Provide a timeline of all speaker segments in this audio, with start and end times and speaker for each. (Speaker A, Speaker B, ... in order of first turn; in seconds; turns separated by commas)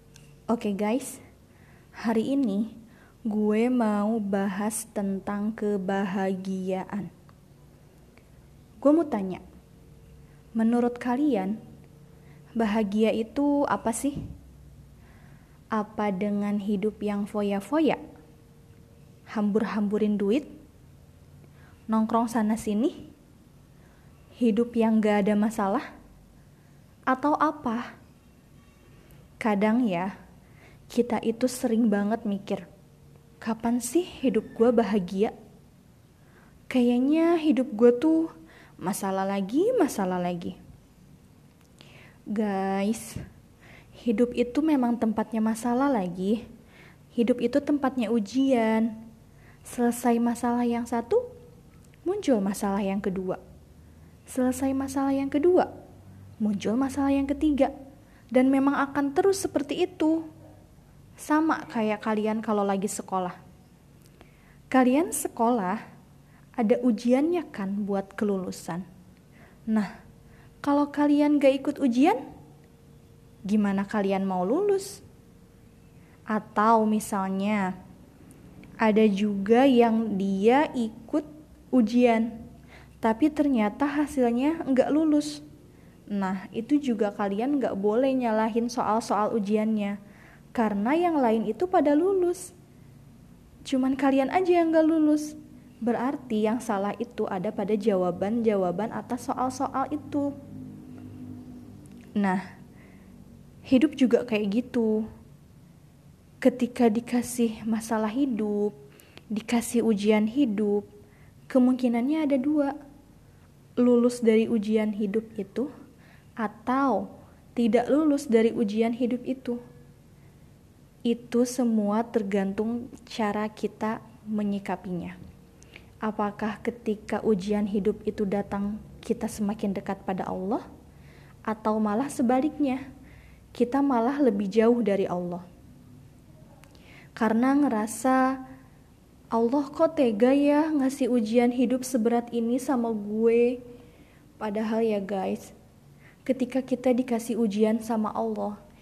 Speaker A: 0.5-1.2, Speaker A: 2.0-2.7, Speaker A: 3.3-7.1, Speaker A: 8.8-9.4, Speaker A: 10.6-11.6, Speaker A: 12.6-14.2, Speaker A: 15.7-18.0, Speaker A: 19.3-20.5, Speaker A: 21.9-23.0, Speaker A: 24.4-25.9, Speaker A: 27.1-27.9, Speaker A: 29.4-30.1, Speaker A: 30.9-32.6, Speaker A: 33.4-35.3, Speaker A: 36.7-38.3, Speaker A: 38.8-40.6, Speaker A: 42.3-43.2, Speaker A: 44.0-46.4, Speaker A: 47.1-48.9, Speaker A: 49.7-51.2, Speaker A: 52.0-53.4, Speaker A: 54.3-55.7, Speaker A: 56.4-57.7, Speaker A: 58.3-60.2, Speaker A: 61.2-63.4, Speaker A: 64.7-65.8, Speaker A: 66.6-68.8, Speaker A: 70.6-72.2, Speaker A: 73.5-75.0, Speaker A: 76.3-77.7, Speaker A: 78.8-82.3, Speaker A: 83.0-85.4, Speaker A: 86.1-90.0, Speaker A: 90.5-92.5, Speaker A: 93.7-100.3, Speaker A: 102.2-102.4, Speaker A: 103.7-105.0, Speaker A: 106.4-108.7, Speaker A: 109.3-110.8, Speaker A: 111.5-112.7, Speaker A: 113.8-115.7, Speaker A: 116.4-117.0, Speaker A: 117.5-119.6, Speaker A: 121.1-125.2, Speaker A: 126.0-130.6, Speaker A: 131.5-132.8, Speaker A: 133.5-135.4, Speaker A: 137.2-138.4, Speaker A: 139.3-143.6, Speaker A: 144.4-145.5, Speaker A: 146.2-148.6